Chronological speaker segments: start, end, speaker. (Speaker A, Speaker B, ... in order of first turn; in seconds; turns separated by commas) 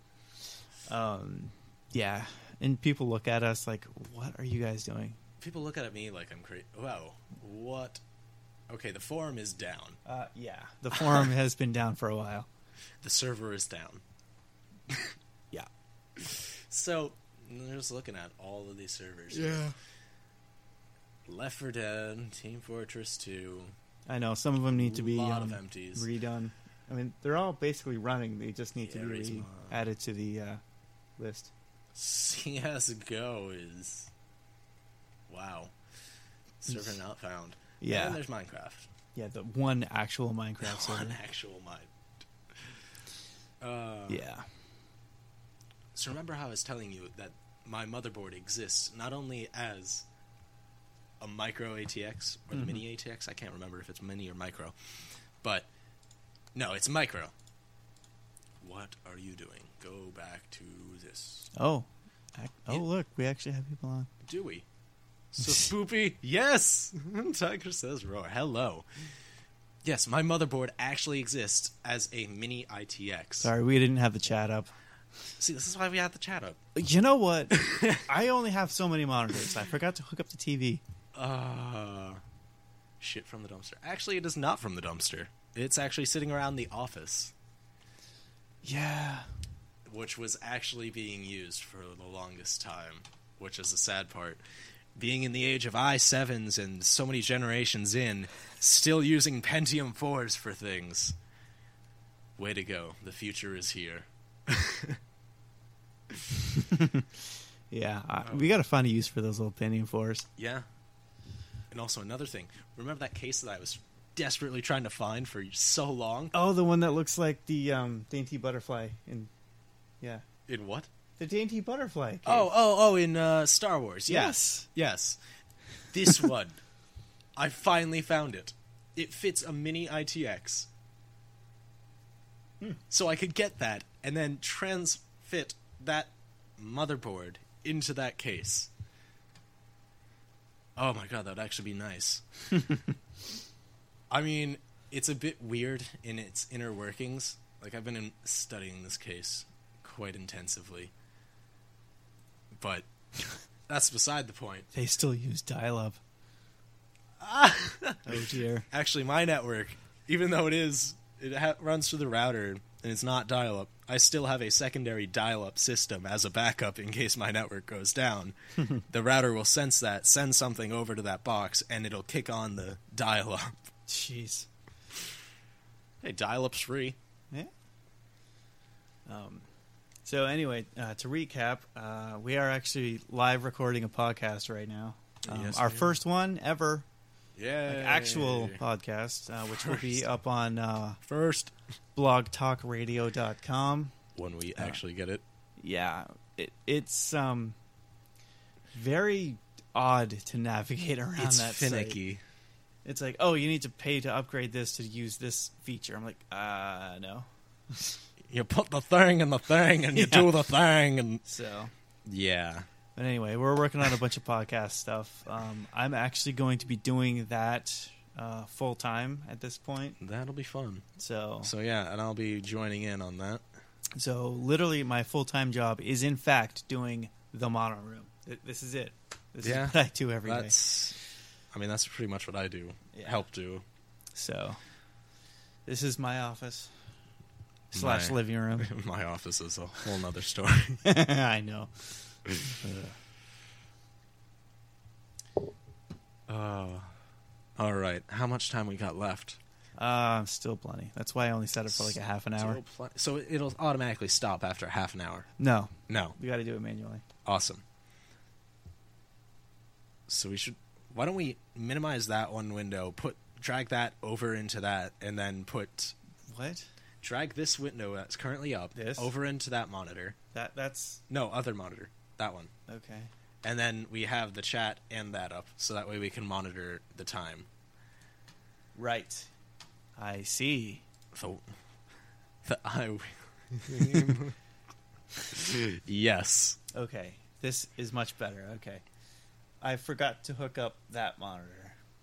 Speaker A: 0.9-5.2, Speaker B: 5.4-8.0, Speaker B: 8.7-10.0, Speaker A: 10.0-12.5, Speaker B: 13.0-14.0, Speaker B: 14.9-15.1, Speaker B: 16.1-19.7, Speaker A: 19.3-19.7, Speaker B: 21.2-23.7, Speaker A: 24.1-30.6, Speaker B: 24.7-26.1, Speaker B: 28.8-29.8, Speaker A: 31.2-31.5, Speaker B: 31.9-34.1, Speaker B: 35.3-35.7, Speaker B: 36.6-38.9, Speaker A: 37.8-38.2, Speaker A: 39.1-41.2, Speaker B: 40.6-41.9, Speaker B: 42.5-42.8, Speaker B: 43.6-44.2, Speaker A: 44.1-44.5, Speaker B: 45.9-50.0, Speaker B: 51.2-54.8, Speaker A: 52.5-52.8, Speaker B: 55.4-55.7, Speaker B: 56.5-57.3, Speaker B: 58.6-61.5, Speaker A: 61.5-64.1, Speaker B: 64.2-64.6, Speaker B: 65.3-69.1, Speaker B: 69.8-73.5, Speaker A: 73.4-74.7, Speaker B: 75.4-76.6, Speaker A: 76.8-80.8, Speaker B: 77.6-78.0, Speaker B: 81.1-82.2, Speaker B: 83.0-87.3, Speaker A: 88.6-89.3, Speaker B: 89.8-94.4, Speaker B: 94.9-101.2, Speaker B: 102.4-105.0, Speaker A: 106.6-107.1, Speaker A: 107.7-110.2, Speaker B: 108.2-108.5, Speaker B: 110.4-110.7, Speaker B: 111.7-116.3, Speaker A: 116.3-119.3, Speaker B: 120.5-120.9, Speaker A: 121.2-122.5, Speaker B: 122.2-125.2, Speaker A: 124.1-124.7, Speaker B: 125.9-126.6, Speaker B: 127.3-130.7, Speaker B: 132.9-138.7, Speaker B: 140.8-142.2, Speaker B: 144.1-150.9, Speaker B: 152.6-152.9, Speaker B: 153.7-154.7, Speaker A: 154.7-156.0, Speaker B: 157.2-173.6, Speaker A: 158.0-158.7, Speaker A: 173.9-174.5, Speaker B: 176.0-177.0, Speaker A: 179.1-179.5, Speaker A: 180.0-186.8, Speaker B: 185.2-186.0, Speaker B: 187.3-188.6, Speaker A: 187.7-191.0, Speaker B: 189.5-190.0, Speaker B: 191.0-191.5, Speaker A: 191.9-193.9, Speaker B: 194.1-195.2, Speaker A: 195.6-197.6, Speaker A: 198.7-202.0, Speaker B: 201.2-202.2, Speaker A: 202.8-208.0, Speaker B: 208.2-211.2, Speaker A: 209.9-210.3, Speaker A: 211.2-211.7, Speaker B: 212.1-212.7, Speaker A: 213.0-220.0, Speaker B: 220.0-220.8, Speaker A: 221.0-221.5, Speaker B: 221.4-223.4, Speaker A: 224.0-230.7, Speaker B: 229.4-231.0, Speaker B: 231.5-233.6, Speaker A: 232.9-233.2, Speaker A: 234.1-234.6, Speaker A: 235.7-236.7, Speaker A: 237.7-238.7, Speaker B: 237.7-240.8, Speaker A: 240.8-243.0, Speaker B: 246.3-246.9, Speaker B: 247.6-249.4, Speaker A: 249.8-252.6, Speaker B: 251.7-255.3, Speaker A: 255.4-257.0, Speaker B: 255.9-256.1, Speaker B: 257.2-257.6, Speaker B: 260.1-265.9, Speaker A: 266.3-266.7, Speaker B: 267.0-270.2, Speaker A: 268.8-269.1, Speaker A: 270.3-271.0, Speaker B: 271.1-272.5, Speaker A: 272.7-273.1, Speaker B: 273.4-277.5, Speaker A: 278.8-279.3, Speaker A: 280.0-280.8, Speaker B: 281.1-281.5, Speaker B: 282.4-284.4, Speaker B: 285.3-286.6, Speaker A: 286.7-288.8, Speaker A: 289.6-291.8